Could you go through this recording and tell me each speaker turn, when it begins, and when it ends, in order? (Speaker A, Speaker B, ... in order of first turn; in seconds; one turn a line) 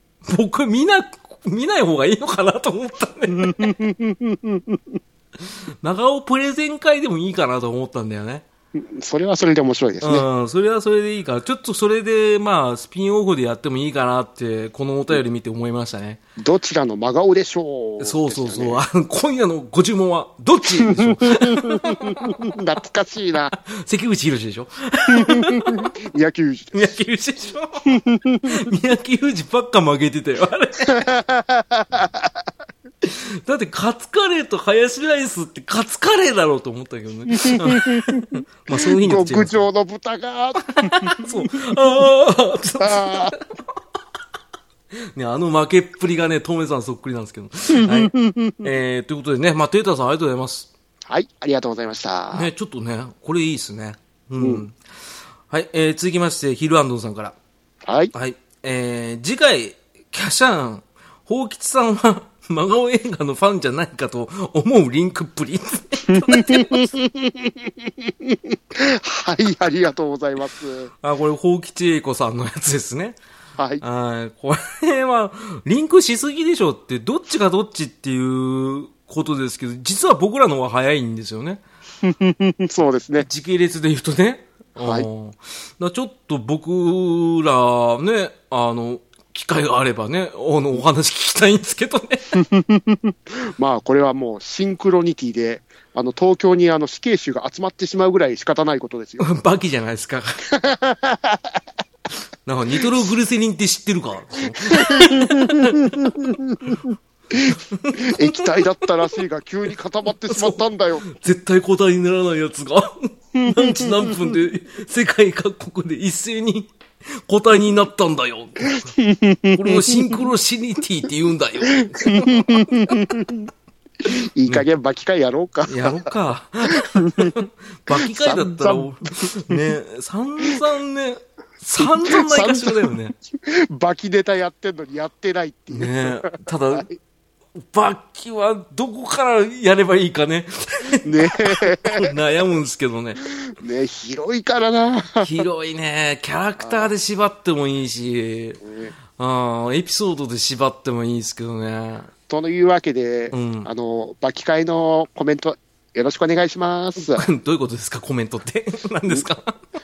Speaker A: 0.2-3.7
Speaker B: 3.4-5.0
Speaker A: 5.8-8.4
Speaker B: 8.7-10.2
Speaker A: 10.0-16.2
Speaker B: 16.4-18.8
Speaker A: 18.0-22.5
Speaker B: 20.8-23.5
Speaker A: 23.6-25.9
Speaker B: 25.1-26.8
Speaker A: 26.7-31.1
Speaker B: 27.9-28.6
Speaker B: 30.8-32.4
Speaker A: 33.0-39.6
Speaker B: 37.3-41.7
Speaker A: 40.7-43.5
Speaker B: 42.8-43.3
Speaker A: 45.1-50.7
Speaker B: 47.7-48.7
Speaker B: 51.1-52.5
Speaker A: 52.3-54.8
Speaker A: 55.5-57.4
Speaker B: 57.9-58.1
Speaker A: 58.1-66.9
Speaker B: 66.1-70.9
Speaker A: 71.0-73.2
Speaker B: 73.6-73.8
Speaker A: 73.8-81.6
Speaker B: 82.0-83.3
Speaker A: 83.2-92.4
Speaker B: 84.8-85.1
Speaker B: 92.3-99.3
Speaker A: 99.2-100.4
Speaker B: 100.5-101.6
Speaker A: 102.5-106.3
Speaker B: 104.5-111.0
Speaker A: 107.5-108.9
Speaker A: 110.3-116.7
Speaker B: 113.3-114.3
Speaker A: 117.2-118.8
Speaker B: 118.7-120.2
Speaker A: 119.5-123.1
Speaker B: 121.7-123.5
Speaker B: 124.0-126.1
Speaker A: 125.7-133.2
Speaker B: 126.7-127.4
Speaker B: 127.9-129.7
Speaker B: 131.8-136.9
Speaker A: 135.7-136.9
Speaker A: 137.6-143.2
Speaker B: 141.0-142.1
Speaker B: 143.4-145.4
Speaker A: 145.2-148.6
Speaker B: 146.6-146.9
Speaker B: 148.6-148.9
Speaker A: 149.2-152.1
Speaker B: 152.3-157.3
Speaker A: 153.3-153.7
Speaker A: 157.0-159.6